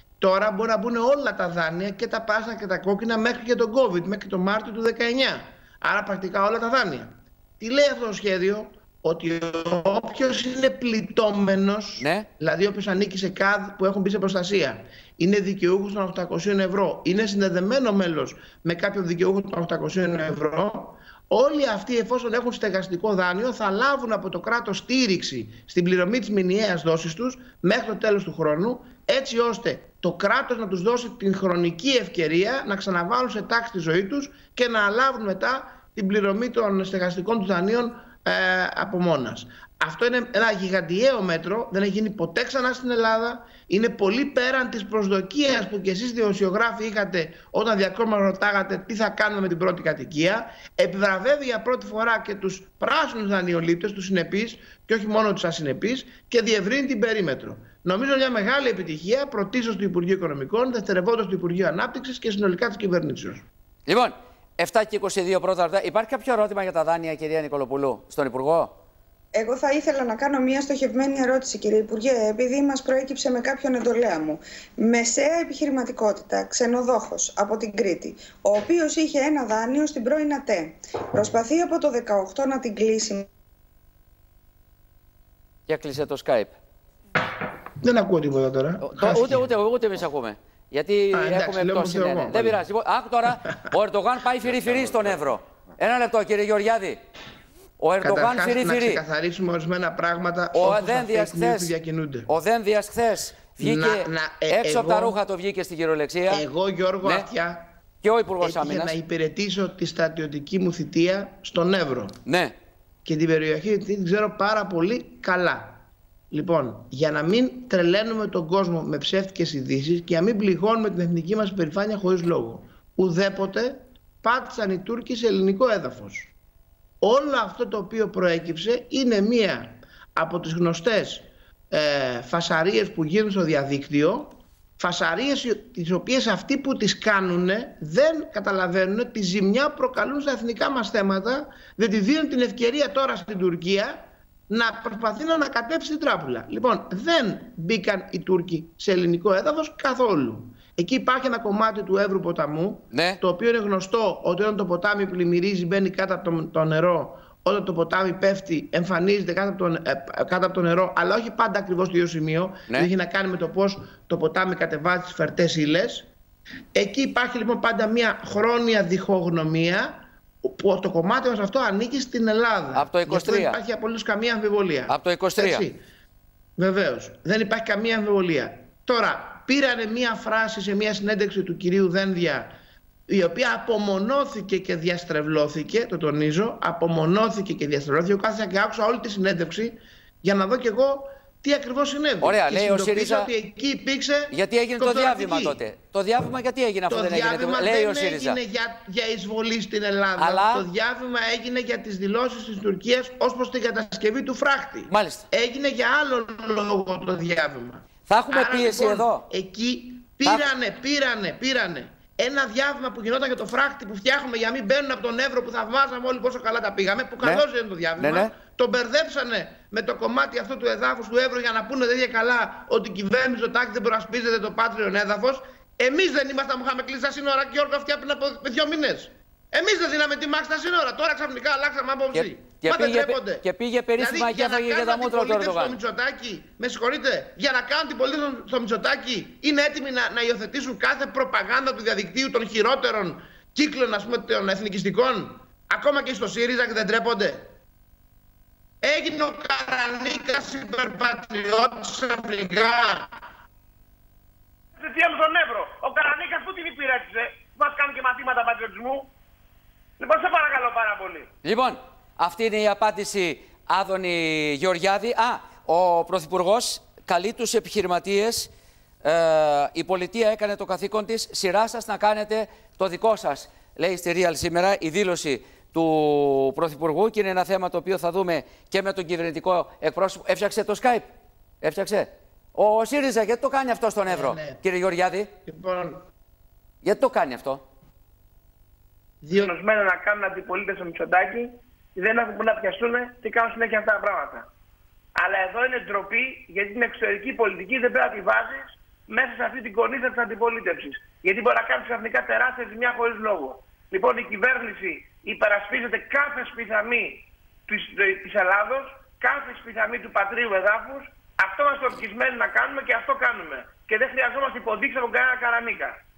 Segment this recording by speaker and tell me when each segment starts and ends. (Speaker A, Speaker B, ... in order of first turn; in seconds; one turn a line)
Speaker A: 0.2-63.5
Speaker B: 12.0-12.3
Speaker B: 63.9-68.8
Speaker C: 69.3-83.3
Speaker B: 85.7-86.6
Speaker A: 87.8-89.5
Speaker B: 88.8-97.0
Speaker A: 91.1-92.6
Speaker B: 97.8-99.0
Speaker A: 98.0-102.3
Speaker B: 100.5-101.7
Speaker B: 102.3-106.4
Speaker A: 103.6-105.2
Speaker A: 106.3-107.7
Speaker B: 107.0-107.3
Speaker B: 108.0-108.9
Speaker A: 108.4-112.2
Speaker B: 112.2-112.5
Speaker A: 113.0-126.3
Speaker A: 127.0-166.1
Speaker B: 152.9-153.2
Speaker A: 166.8-175.8
Speaker B: 172.8-173.6
Speaker B: 174.9-175.7
Speaker A: 176.6-182.5
Speaker A: 183.1-195.6
Speaker B: 192.2-193.3
Speaker B: 194.3-198.4
Speaker A: 196.9-233.4
Speaker B: 200.2-200.7
Speaker B: 204.9-205.3
Speaker B: 208.1-209.3
Speaker B: 218.0-218.3
Speaker B: 232.1-235.8
Speaker A: 234.0-247.5
Speaker A: 248.8-253.2
Speaker D: 254.8-259.1
Speaker D: 260.0-261.3
Speaker B: 261.4-268.5
Speaker B: 269.0-281.1
Speaker B: 281.6-285.3
Speaker A: 284.1-284.6
Speaker A: 285.5-286.0
Speaker B: 286.8-287.6
Speaker A: 289.2-289.5
Speaker D: 289.4-294.5
Speaker D: 295.2-316.0